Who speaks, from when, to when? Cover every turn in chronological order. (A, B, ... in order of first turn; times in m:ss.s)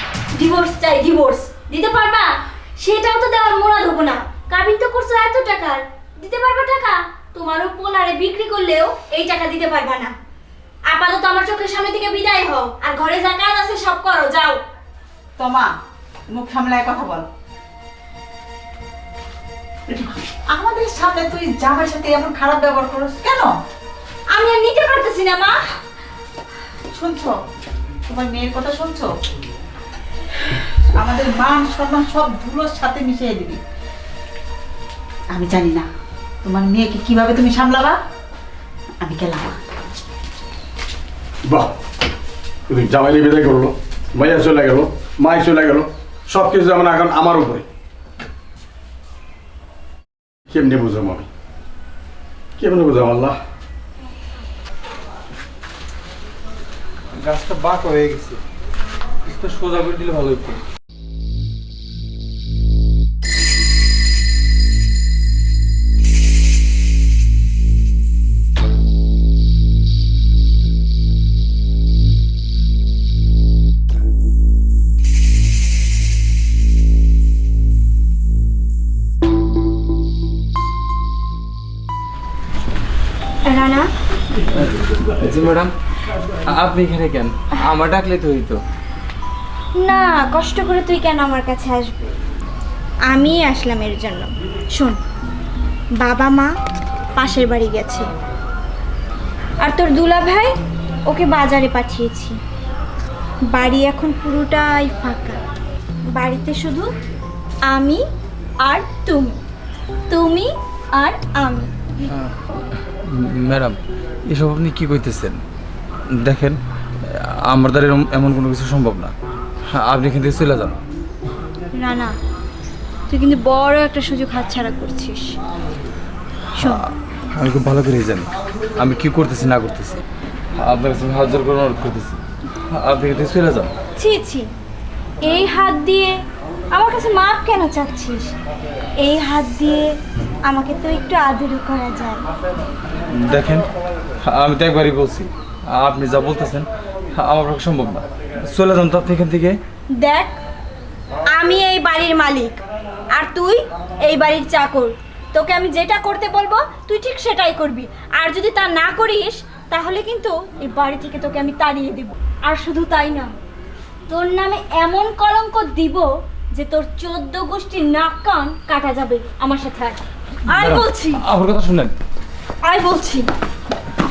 0:00.3-0:10.1 A
0:10.9-0:14.6 A
0:15.4-0:15.7 B
0:16.3-0:17.2 B
0:19.9-0:23.5 B
0:24.3-0:25.6 A
0:26.9-0:27.4 B
0:28.1-0:29.1 B
0:30.9-0:33.6 B
0:35.3-0:35.9 B
0:36.4-0:38.0 B
0:39.0-0:39.6 B
0:41.4-0:41.7 C
0:42.7-0:47.6 C
0:50.5-0:51.3 C
0:52.6-0:53.4 C
0:57.1-0:58.4 D
0:59.2-1:00.6 D
1:23.5-1:23.9 A
1:24.5-1:25.7 D
1:26.5-1:28.6 D
1:29.8-1:32.0 A
1:33.1-1:35.0 A
1:36.0-1:36.5 A
1:37.2-1:38.1 A
1:39.6-1:40.5 A
1:41.1-1:42.4 A
1:43.5-1:45.4 A
1:46.1-1:46.9 A
1:47.7-1:48.0 A
1:48.6-1:49.4 A
1:50.1-1:52.0 A
1:52.1-1:55.4 D
1:56.1-1:59.1 D
1:59.7-2:00.8 D
2:01.8-2:02.2 A
2:03.1-2:05.4 A
2:06.5-2:10.0 D
2:06.6-2:06.9 A
2:10.6-2:12.2 D
2:12.7-2:13.7 D
2:14.0-2:14.5 A
2:15.2-2:16.2 A
2:16.7-2:18.3 A
2:19.0-2:22.2 A
2:23.1-2:23.7 D
2:24.2-2:29.6 D
2:30.0-2:30.4 A
2:31.3-2:32.6 A
2:33.1-2:43.3 A
2:44.1-2:51.2 A
2:50.5-2:51.9 D
2:52.6-2:53.3 A